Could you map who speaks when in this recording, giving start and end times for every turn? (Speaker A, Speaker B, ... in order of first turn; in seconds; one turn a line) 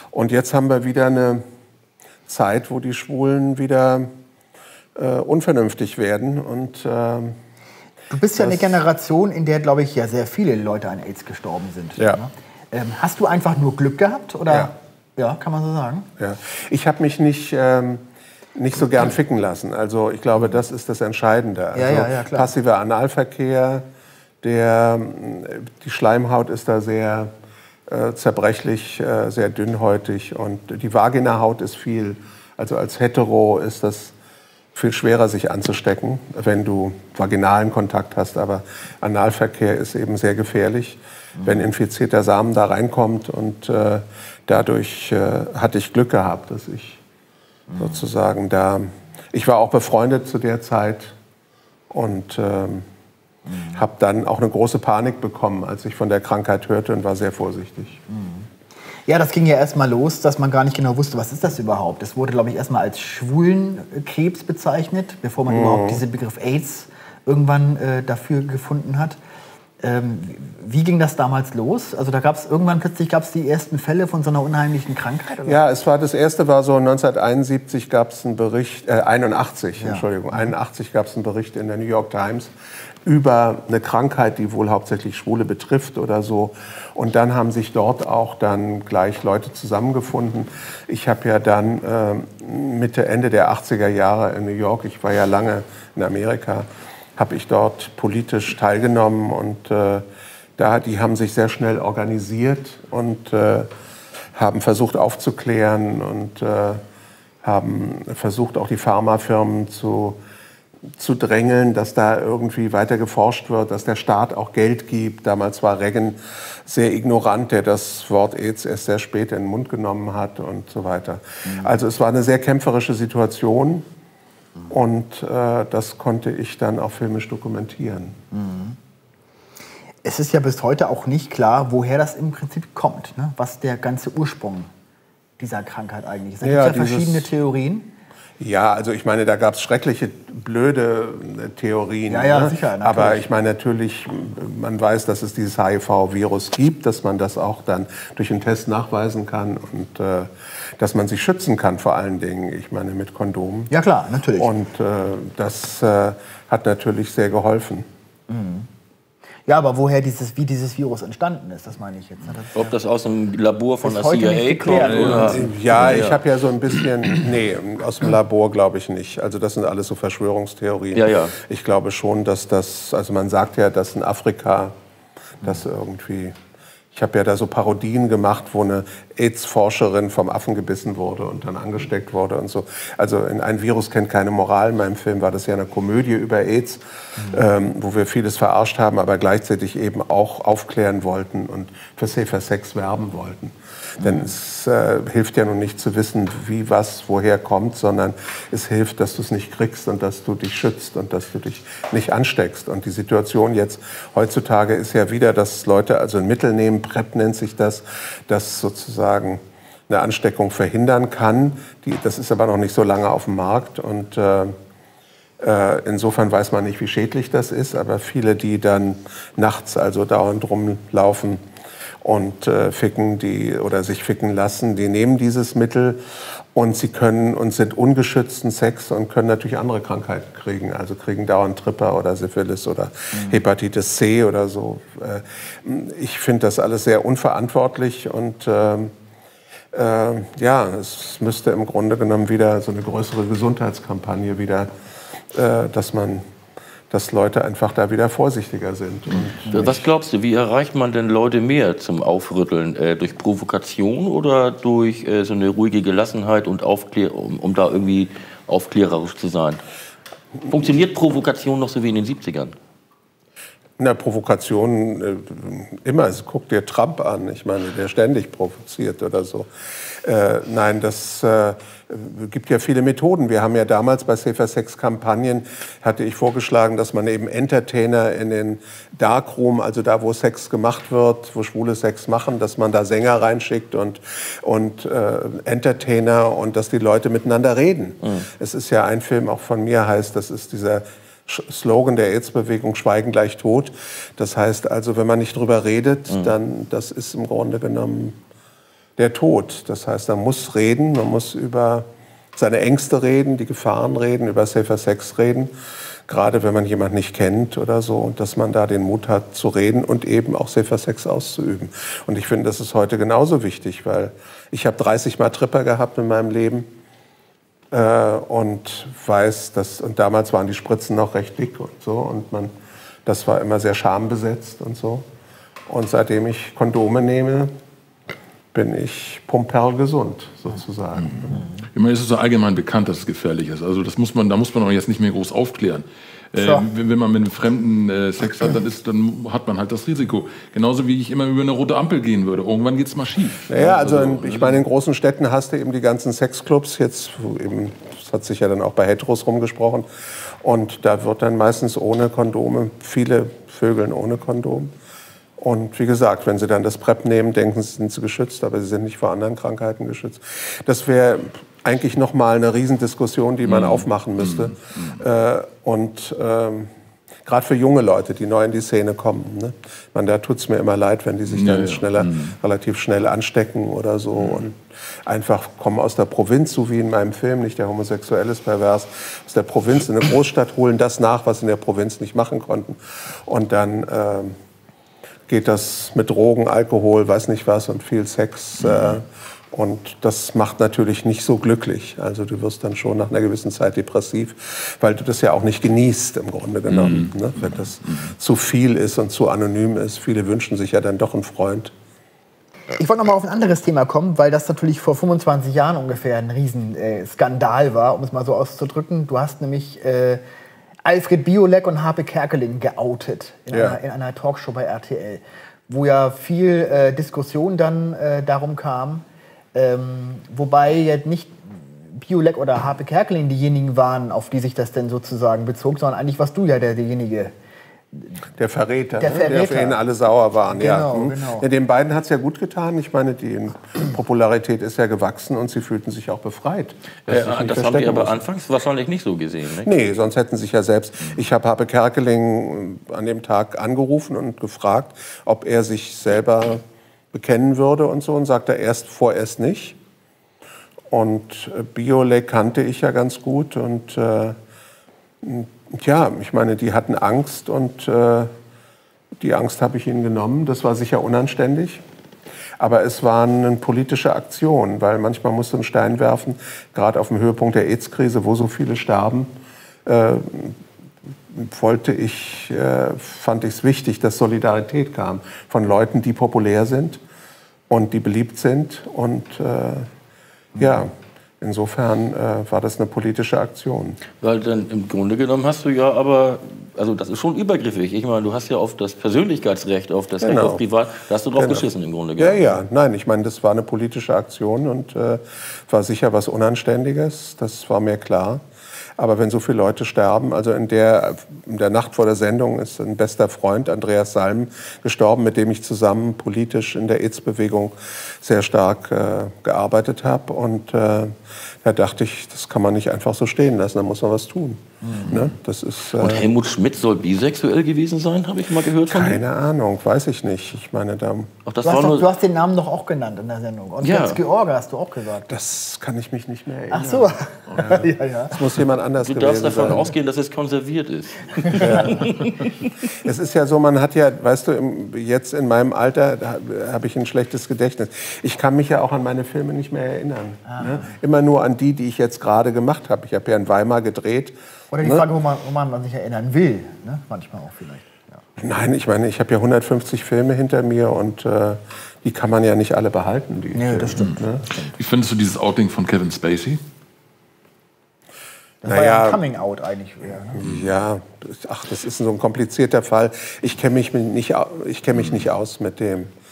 Speaker A: 0.1-1.4
Speaker A: 2.3-4.1
Speaker A: 5.0-7.4
Speaker B: 8.1-16.1
Speaker A: 8.3-8.8
Speaker A: 16.2-18.0
Speaker A: 18.5-23.8
Speaker B: 21.7-22.5
Speaker A: 24.4-27.3
Speaker A: 27.9-34.1
Speaker A: 34.7-47.0
Speaker A: 47.8-51.1
Speaker A: 51.9-52.8
Speaker A: 53.6-58.0
Speaker B: 58.1-58.5
Speaker B: 59.0-69.2
Speaker A: 65.5-66.0
Speaker B: 69.8-75.6
Speaker A: 75.4-82.5
Speaker B: 79.8-80.5
Speaker A: 83.0-100.0
Speaker A: 100.6-103.7
Speaker A: 104.3-106.8
Speaker A: 107.4-110.2
Speaker A: 111.0-123.8
Speaker B: 121.4-121.7
Speaker A: 124.7-128.2
Speaker B: 128.3-128.8
Speaker B: 130.0-134.7
Speaker B: 135.4-137.9
Speaker A: 136.4-137.3
Speaker A: 138.4-153.7
Speaker B: 142.1-143.3
Speaker B: 153.7-154.5
Speaker A: 154.3-157.8
Speaker B: 158.3-158.7
Speaker B: 159.4-162.7
Speaker C: 162.5-166.2
Speaker B: 163.8-165.5
Speaker D: 164.7-165.4
Speaker A: 165.0-174.7
Speaker C: 170.9-171.3
Speaker A: 175.4-176.3
Speaker A: 176.9-214.5
Speaker A: 215.4-221.4
Speaker A: 222.0-226.0
Speaker A: 226.5-238.9
Speaker B: 233.1-233.4
Speaker A: 239.7-244.7
Speaker A: 245.3-246.2
Speaker A: 246.9-249.9
Speaker C: 249.5-259.6
Speaker C: 260.4-262.5
Speaker A: 263.8-269.5
Speaker A: 270.0-298.1
Speaker A: 299.0-305.5
Speaker A: 306.1-316.7
Speaker A: 317.7-322.5
Speaker A: 323.1-325.0
Speaker A: 325.7-327.5
Speaker A: 328.5-331.5
Speaker D: 331.0-344.6
Speaker B: 336.4-336.6
Speaker A: 343.5-349.9
Speaker A: 350.4-354.7
Speaker A: 355.4-366.7
Speaker D: 363.4-365.0
Speaker A: 367.2-384.3
Speaker D: 371.3-372.4
Speaker A: 385.3-401.7
Speaker D: 388.6-389.0
Speaker D: 396.7-398.1
Speaker B: 402.7-410.2
Speaker B: 410.8-427.3
Speaker A: 413.5-413.8
Speaker B: 427.9-428.2
Speaker A: 428.4-438.2
Speaker B: 429.0-429.8
Speaker B: 430.5-431.5
Speaker C: 437.1-439.7
Speaker A: 439.6-446.6
Speaker A: 447.1-449.8
Speaker A: 450.9-454.4
Speaker A: 455.2-458.3
Speaker A: 459.2-461.8
Speaker A: 462.6-469.3
Speaker A: 469.9-470.6
Speaker A: 471.3-477.0
Speaker A: 477.7-479.9
Speaker A: 480.6-484.0
Speaker C: 484.2-492.6
Speaker A: 490.2-490.6
Speaker A: 491.4-498.4
Speaker A: 499.0-516.3
Speaker B: 514.8-515.1
Speaker C: 516.0-519.2
Speaker A: 518.9-521.3
Speaker C: 521.5-522.1
Speaker B: 521.6-525.3
Speaker C: 523.8-524.2
Speaker A: 525.3-529.9
Speaker B: 526.7-528.4
Speaker C: 529.0-532.5
Speaker A: 531.6-532.1
Speaker A: 533.0-545.0
Speaker B: 544.7-548.2
Speaker A: 548.4-554.4
Speaker B: 553.5-554.7
Speaker D: 554.0-556.6
Speaker B: 558.6-560.4
Speaker A: 558.6-559.2
Speaker A: 560.3-566.1
Speaker D: 560.4-560.7